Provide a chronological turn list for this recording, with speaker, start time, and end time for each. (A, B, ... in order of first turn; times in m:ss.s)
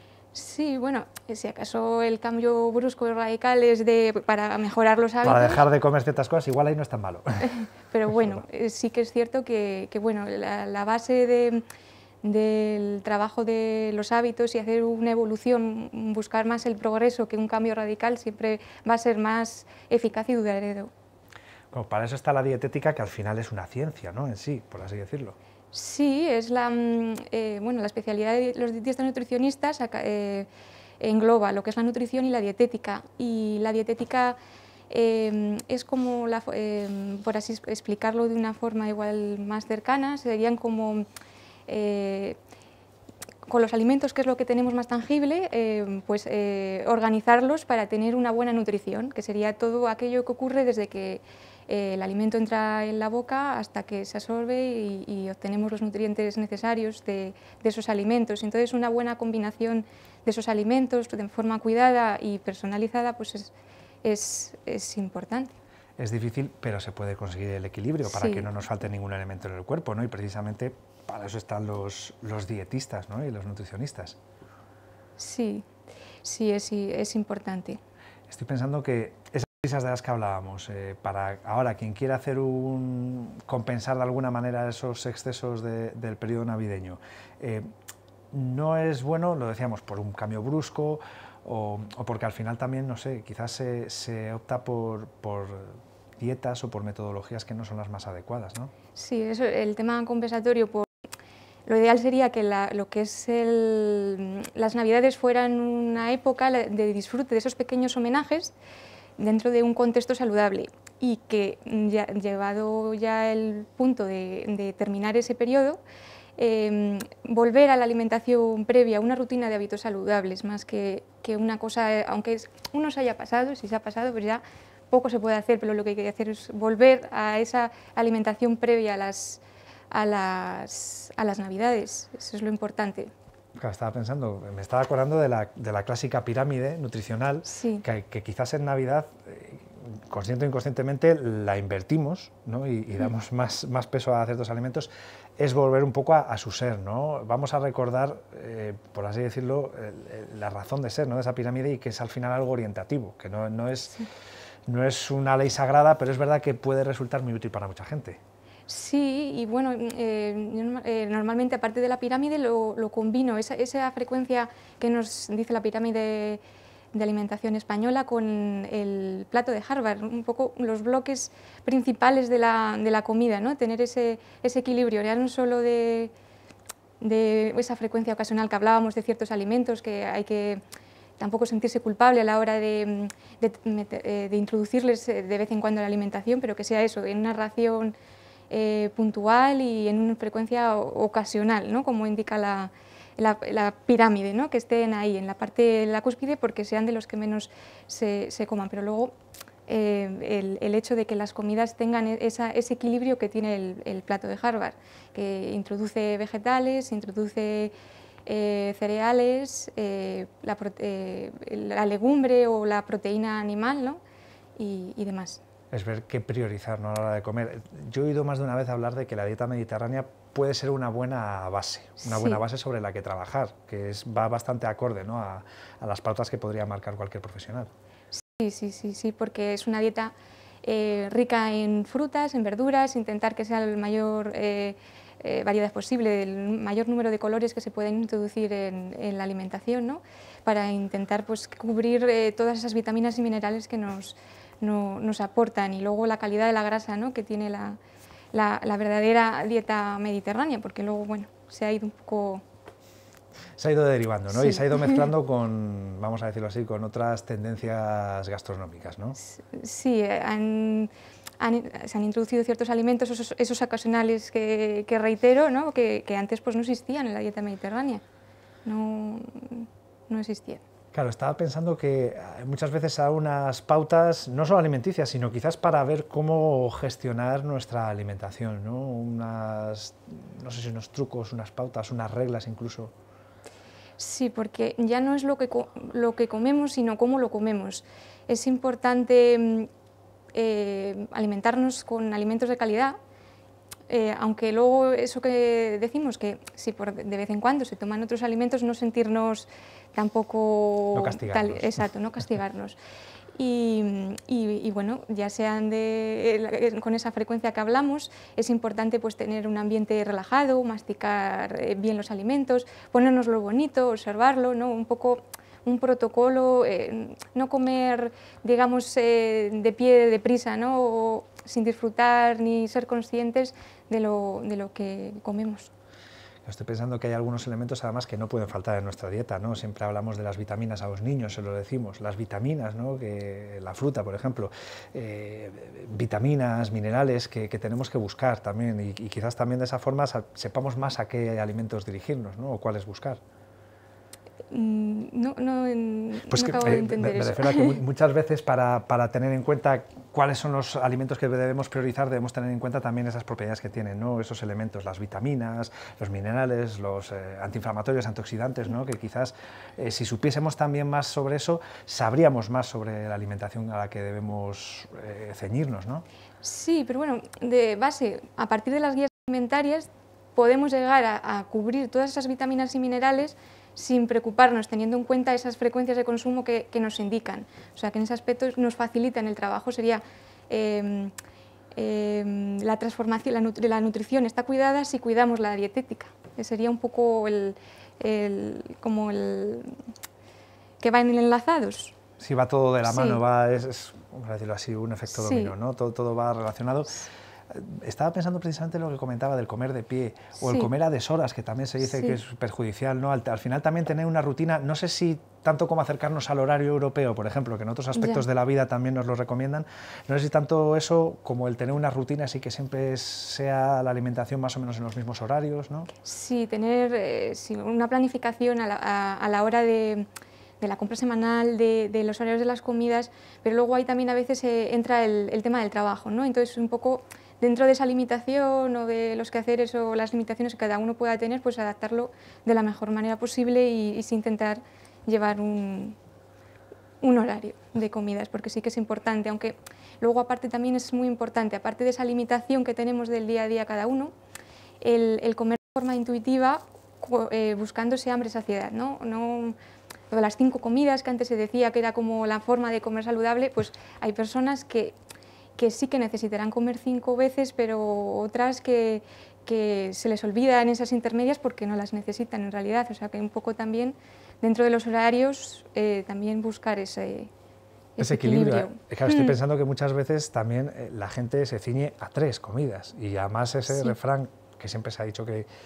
0:00.3-0:05.6 A
0:05.2-0:07.7 B
0:07.9-0:11.6 A
0:12.2-0:20.9 A
0:21.7-0:25.4 B
0:25.7-0:30.5 A
0:31.0-0:34.4 A
0:34.9-0:41.1 A
0:41.7-0:42.4 A
0:43.5-1:03.5 A
1:04.0-1:05.5 A
1:06.0-1:14.2 B
1:08.1-1:08.5 A
1:15.2-1:15.6 A
1:16.2-1:17.8 A
1:18.3-1:27.7 B
1:28.3-1:38.7 B
1:39.0-1:40.9 A
1:41.7-1:48.5 A
1:49.2-1:55.8 A
1:56.4-2:13.1 A
2:13.6-2:34.0 B
2:17.4-2:17.8 A
2:34.7-2:38.2 B
2:38.7-2:46.4 A
2:46.9-2:56.1 A
2:57.0-3:00.6 A
3:01.2-3:08.0 A
3:08.5-3:19.1 A
3:19.7-3:27.7 A
3:28.2-3:34.0 A
3:34.6-3:35.4 A
3:35.7-3:47.7 B
3:42.0-3:42.4 A
3:48.1-4:07.8 A
4:08.3-4:12.4 A
4:13.6-4:19.2 B
4:14.3-4:15.1 A
4:19.2-4:28.0 A
4:28.6-4:30.6 A
4:30.9-4:42.9 B
4:44.0-4:49.7 A
4:50.3-4:52.9 A
4:53.9-5:02.8 A
5:00.9-5:01.7 B
5:03.4-5:25.7 A
5:26.4-5:43.2 B
5:44.5-5:47.8 A
5:46.3-6:06.0 B
6:06.4-6:21.1 A
6:21.7-6:29.8 A
6:30.8-6:32.0 A
6:32.2-6:55.9 B
6:32.8-6:33.2 A
6:35.1-6:35.5 A
6:40.4-6:40.7 A
6:41.9-6:42.2 A
6:47.9-6:48.2 A
6:56.0-7:00.1 A
7:00.6-7:16.0 A
7:17.0-7:24.1 A
7:24.8-7:29.6 A
7:30.1-7:35.0 A
7:35.6-7:47.3 A
7:48.0-7:49.4 A
7:48.0-7:55.5 B
7:53.7-7:54.0 A